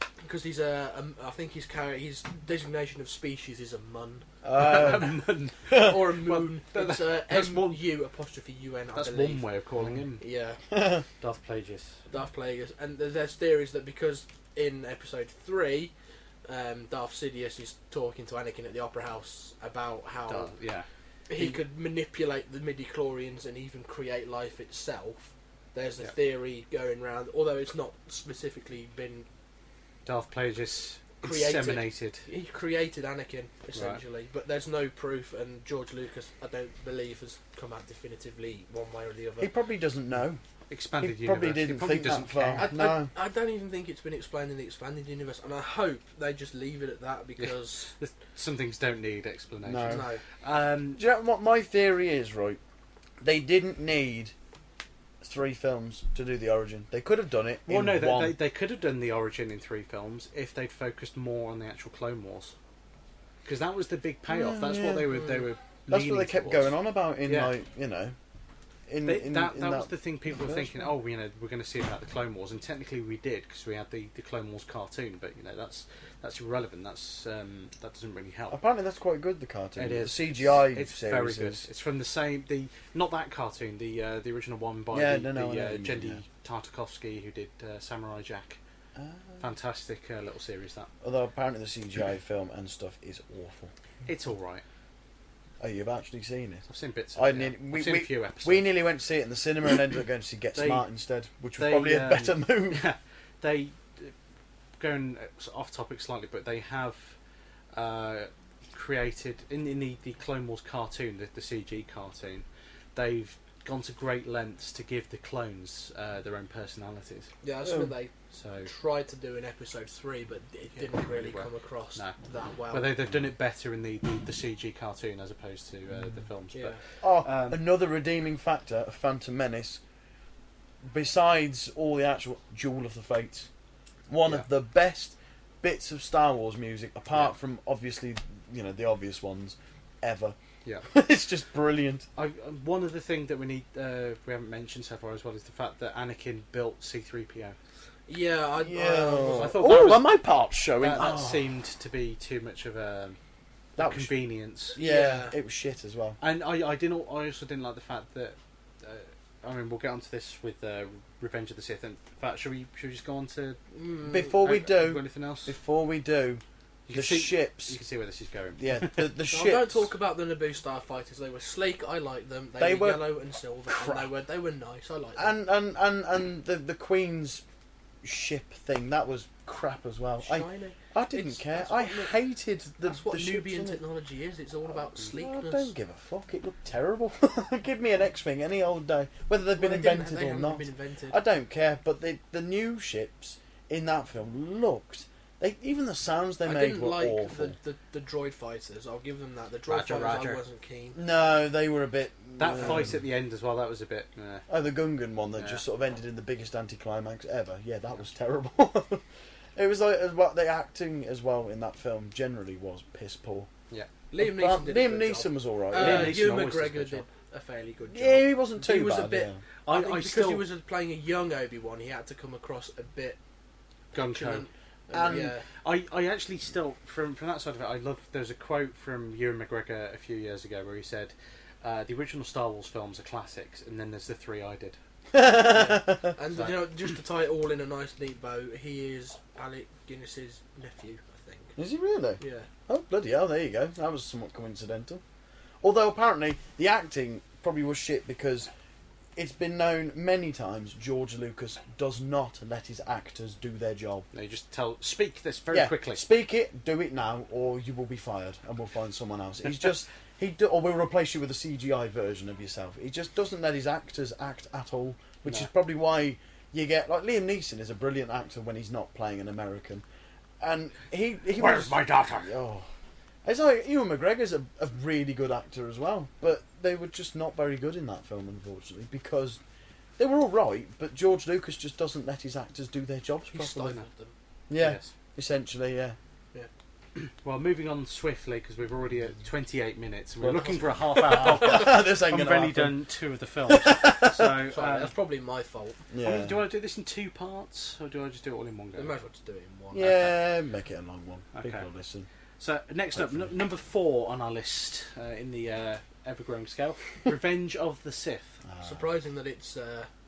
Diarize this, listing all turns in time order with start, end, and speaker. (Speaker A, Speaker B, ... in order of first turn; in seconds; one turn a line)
Speaker A: 0.2-4.2
Speaker B: 4.4-5.1
Speaker C: 4.5-7.8
Speaker A: 5.7-9.5
Speaker C: 8.9-10.2
Speaker A: 10.2-10.6
Speaker B: 10.7-11.0
Speaker C: 11.2-12.0
Speaker A: 12.1-15.9
Speaker A: 16.4-20.5
Speaker C: 20.3-21.6
Speaker A: 21.3-29.2
Speaker C: 30.0-32.2
Speaker A: 31.2-39.5
Speaker C: 33.7-34.0
Speaker B: 39.4-40.4
Speaker C: 40.7-42.7
Speaker B: 41.0-43.1
Speaker A: 42.6-47.9
Speaker C: 47.4-51.0
Speaker B: 49.6-50.1
Speaker A: 49.9-50.2
Speaker B: 51.0-52.6
Speaker B: 53.2-54.3
Speaker B: 55.2-58.4
Speaker C: 57.7-62.5
Speaker C: 63.4-67.5
Speaker B: 64.3-65.1
Speaker A: 65.0-65.5
Speaker B: 65.9-68.2
Speaker B: 68.9-70.9
Speaker C: 69.0-78.6
Speaker B: 78.5-81.7
Speaker C: 79.8-88.6
Speaker B: 84.9-86.2
Speaker B: 89.0-89.4
Speaker C: 89.4-90.9
Speaker B: 91.0-93.7
Speaker C: 94.0-94.6
Speaker B: 95.6-102.8
Speaker C: 96.7-98.8
Speaker C: 100.5-100.9
Speaker C: 101.6-104.1
Speaker C: 104.8-107.2
Speaker C: 107.7-117.3
Speaker A: 117.4-118.1
Speaker B: 117.7-117.9
Speaker C: 118.3-118.7
Speaker A: 118.6-123.0
Speaker C: 120.7-122.2
Speaker C: 122.7-127.6
Speaker A: 126.5-126.8
Speaker B: 127.0-129.8
Speaker B: 130.8-133.5
Speaker B: 134.1-142.1
Speaker C: 142.2-147.6
Speaker A: 148.1-150.0
Speaker B: 148.6-151.4
Speaker C: 149.3-150.1
Speaker C: 150.8-153.2
Speaker B: 153.8-154.1
Speaker C: 153.8-154.8
Speaker A: 154.7-155.3
Speaker B: 154.7-156.2
Speaker C: 156.2-163.6
Speaker A: 163.7-164.4
Speaker B: 164.1-166.4
Speaker C: 164.4-165.6
Speaker C: 166.9-169.1
Speaker B: 166.9-167.8
Speaker B: 168.6-169.9
Speaker A: 169.3-175.3
Speaker B: 172.6-173.1
Speaker B: 173.7-174.1
Speaker B: 175.2-177.4
Speaker B: 178.0-183.8
Speaker A: 180.2-182.2
Speaker A: 182.8-185.7
Speaker B: 185.1-197.5
Speaker A: 189.6-191.2
Speaker A: 196.4-201.0
Speaker C: 199.7-200.4
Speaker B: 200.9-203.0
Speaker C: 202.4-204.4
Speaker B: 204.5-209.0
Speaker C: 205.4-205.6
Speaker B: 209.6-213.5
Speaker A: 214.1-223.2
Speaker B: 214.2-216.2
Speaker C: 215.7-217.1
Speaker B: 217.9-219.4
Speaker C: 219.7-220.4
Speaker C: 223.9-224.5
Speaker A: 223.9-225.4
Speaker B: 224.9-225.3
Speaker C: 225.5-234.8
Speaker B: 235.1-236.1
Speaker A: 235.5-241.5
Speaker C: 236.3-236.9
Speaker B: 241.6-245.0
Speaker A: 242.2-242.5
Speaker B: 245.6-248.5
Speaker B: 249.2-254.1
Speaker C: 254.1-256.0
Speaker B: 255.5-269.9
Speaker B: 270.4-272.7
Speaker C: 271.4-272.3
Speaker B: 273.2-279.4
Speaker B: 280.0-283.8
Speaker A: 283.3-284.1
Speaker B: 284.5-286.0
Speaker C: 284.6-284.9
Speaker C: 286.9-294.9
Speaker B: 290.2-292.7
Speaker A: 290.4-291.6
Speaker B: 293.5-294.3
Speaker A: 294.5-295.8
Speaker B: 295.9-296.4
Speaker C: 296.0-298.9
Speaker A: 298.8-300.1
Speaker B: 299.7-302.1
Speaker C: 301.3-301.6
Speaker C: 302.4-308.4
Speaker B: 302.9-303.3
Speaker B: 308.4-308.9
Speaker A: 308.6-309.9